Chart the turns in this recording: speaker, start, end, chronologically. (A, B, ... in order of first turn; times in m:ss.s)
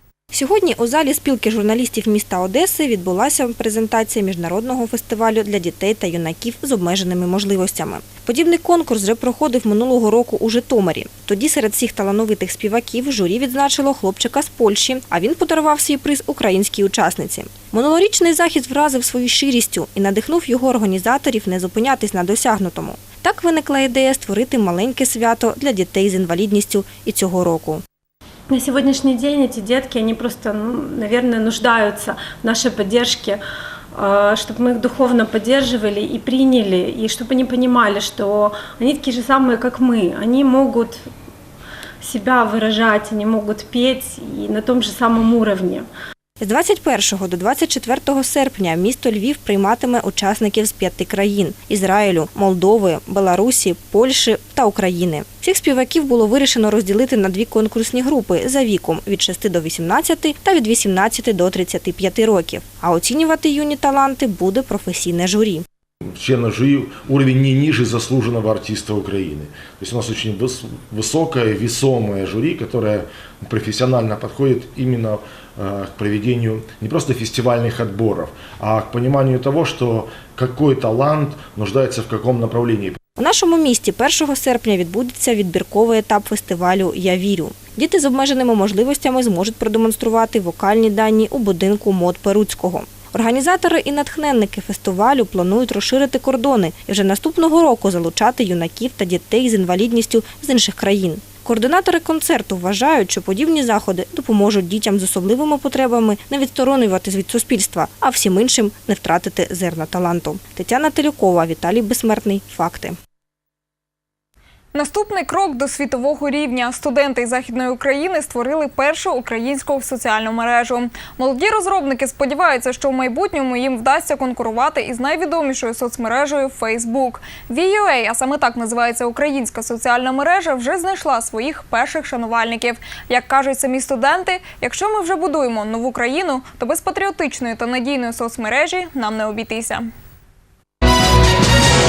0:00.3-0:27.8 A
0:28.5-0:33.4 B
0:34.0-0:41.0 B
0:42.0-0:45.8 B
0:46.4-1:05.6 A
1:06.2-1:23.0 C
1:23.2-1:53.0 A
1:54.7-2:19.9 D